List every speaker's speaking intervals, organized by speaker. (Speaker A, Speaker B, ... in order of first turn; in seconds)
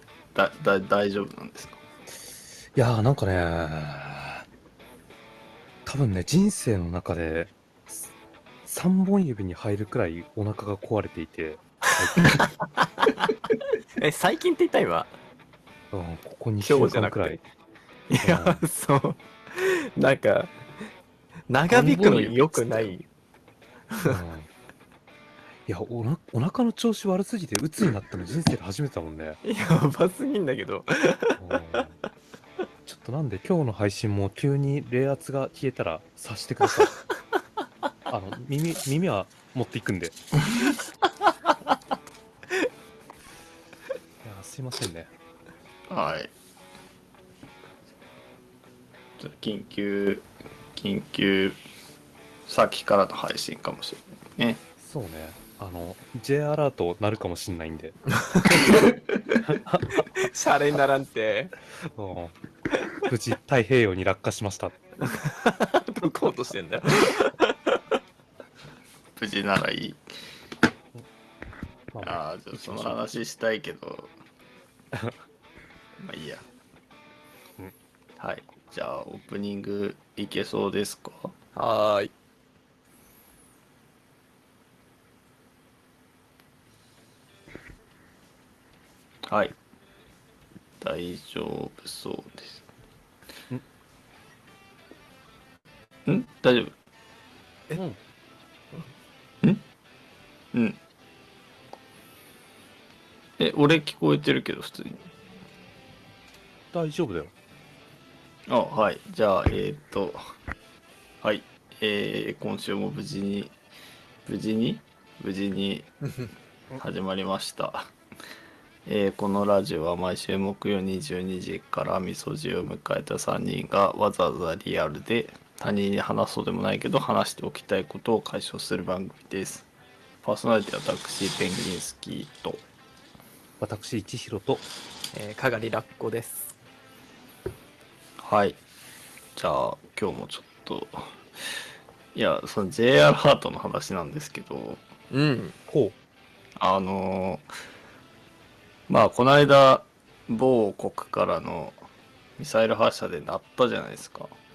Speaker A: 0.3-1.8, 21.7-22.9, 45.9-46.3, 49.2-51.6, 52.5-54.6, 69.2-70.0, 72.0-74.1, 76.0-76.4, 78.2-81.3, 89.3-89.6, 90.8-92.6, 96.0-96.7, 100.5-100.8, 103.4-105.0, 108.5-110.2, 111.2-113.5, 114.2-115.9, 116.8-117.9, 118.8-129.7, 130.2-132.6, 138.2-138.6, 139.3-141.1, 142.1-144.8, 146.6-147.4, 148.9-151.8, 152.4-154.3
Speaker B: 2.7-4.4, 5.8-8.1, 8.7-12.5, 15.9-17.4, 18.2-18.6, 24.0-24.5, 25.6-29.4, 31.4-32.0, 32.8-37.0, 38.1-40.2, 44.2-45.1, 54.8-58.7, 59.3-60.1, 61.9-62.3, 63.0-64.8, 71.9-73.0, 106.7-107.3, 133.6-134.6, 145.7-145.9
Speaker C: 12.2-13.3, 14.0-15.1, 16.6-17.4, 18.1-20.5, 21.5-23.1, 23.9-24.2, 29.4-31.4, 58.2-58.8, 60.1-61.5, 65.1-67.8, 81.5-82.1, 135.1-136.6, 145.1-145.6